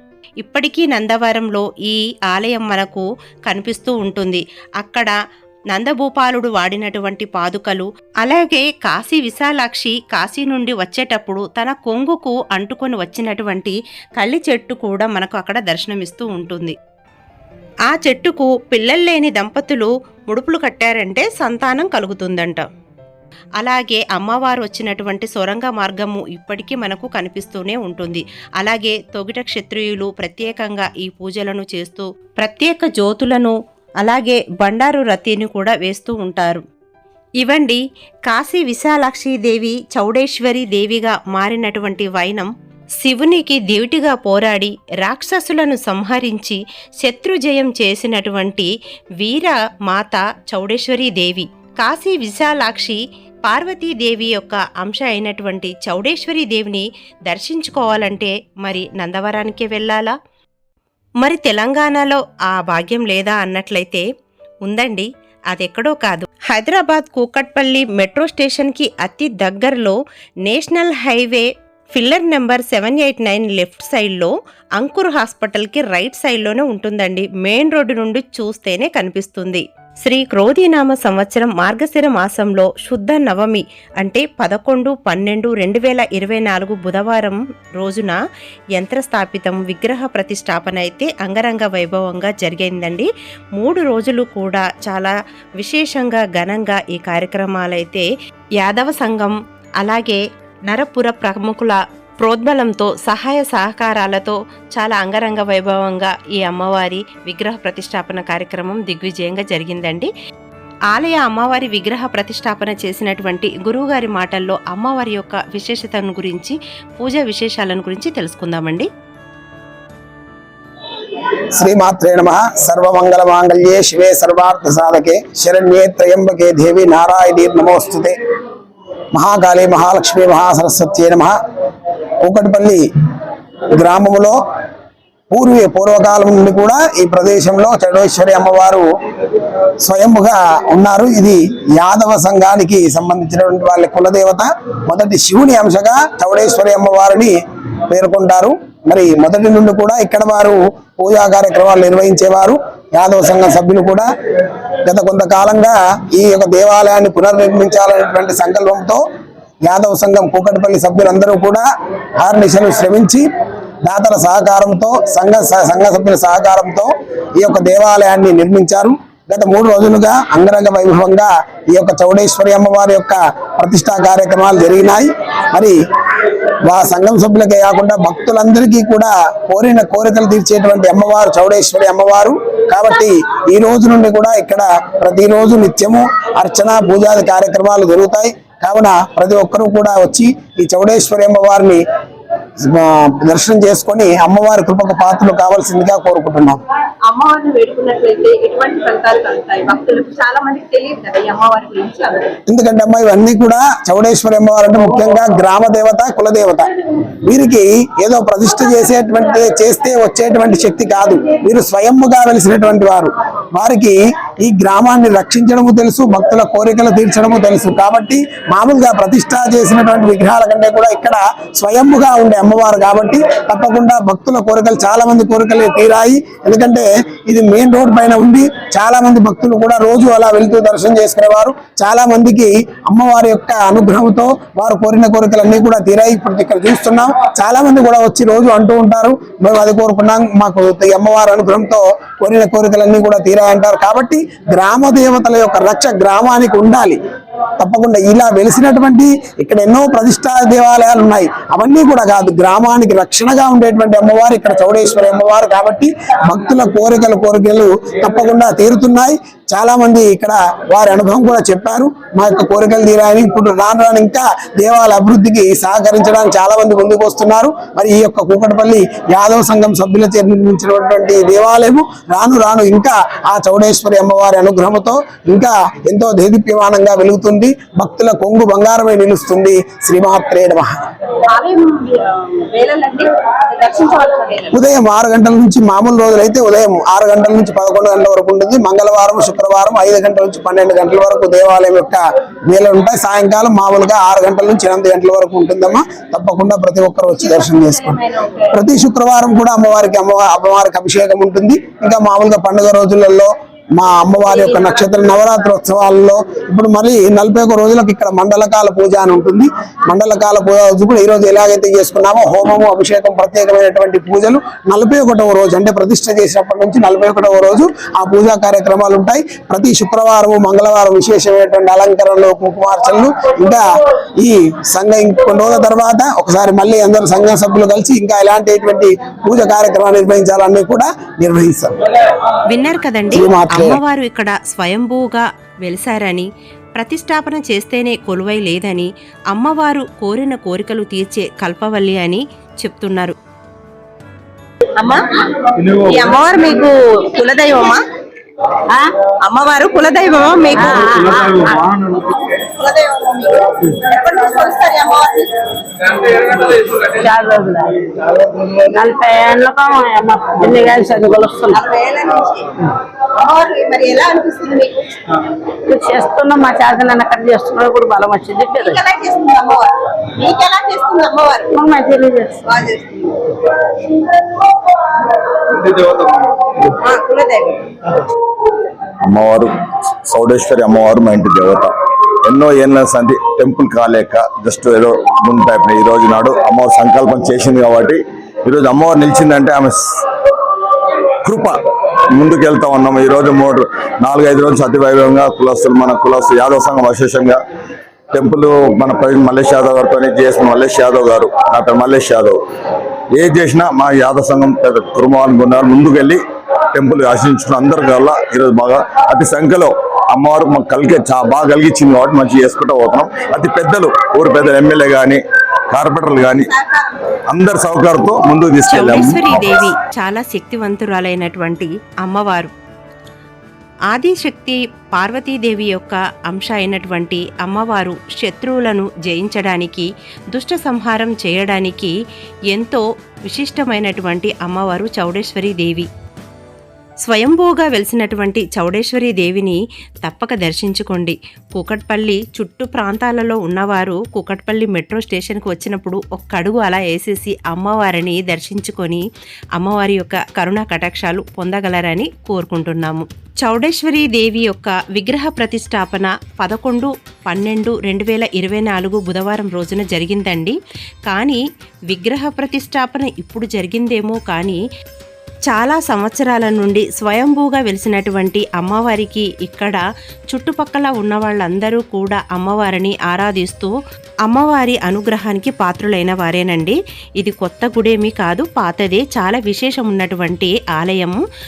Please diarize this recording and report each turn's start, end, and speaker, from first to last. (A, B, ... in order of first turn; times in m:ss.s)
0:00.4-0:05.2 A
0:05.7-0:16.8 A
0:17.9-0:22.7 A
0:23.6-0:36.6 A
0:37.4-0:42.5 A
0:43.0-0:48.7 A
0:49.2-1:00.1 A
1:01.2-1:04.0 A
1:04.6-1:28.2 A
1:28.8-1:38.1 A
1:38.6-1:50.1 A
1:50.9-1:58.9 A
2:01.6-2:08.1 B
2:09.1-2:11.4 B
2:12.2-2:12.8 B
2:13.8-2:14.4 B
2:15.3-2:18.8 B
2:19.8-2:27.3 B
2:27.9-2:34.1 B
2:34.8-2:39.0 B
2:39.7-2:41.6 B
2:42.2-2:43.2 B
2:43.8-2:55.7 B
2:56.7-3:11.8 B
3:12.6-3:16.6 B
3:17.1-3:22.3 C
3:22.5-3:26.7 B
3:27.2-4:07.0 B
4:07.6-4:40.7 B
4:41.3-4:44.6 C
4:44.5-5:23.6 B
4:58.0-4:58.5 C
5:24.2-5:31.7 B
5:32.5-5:43.2 A
5:33.1-5:33.8 B
5:44.8-5:45.1 C
5:45.6-5:47.8 C
5:48.7-5:56.9 C
5:50.6-5:51.6 D
5:57.0-5:57.8 D
5:58.6-6:01.6 D
6:01.5-6:02.5 C
6:03.2-6:04.9 C
6:05.7-6:08.8 D
6:08.6-6:11.5 C
6:11.5-6:12.4 D
6:12.5-6:13.2 C
6:15.7-6:16.2 E
6:16.8-6:17.6 C
6:19.0-6:19.5 E
6:20.1-6:21.7 E
6:22.2-6:29.8 E
6:31.2-6:31.6 E
6:32.1-6:37.4 E
6:38.1-6:42.4 E
6:43.1-6:46.2 E
6:46.7-6:56.5 E
6:57.3-6:59.6 E
6:58.7-7:02.5 A
7:03.9-7:11.9 A
7:12.5-7:15.9 A
7:17.0-7:29.0 A
7:29.6-7:40.6 A
7:41.1-7:44.6 A
7:45.5-7:49.8 A
7:50.3-7:53.7 A
7:54.3-8:01.2 A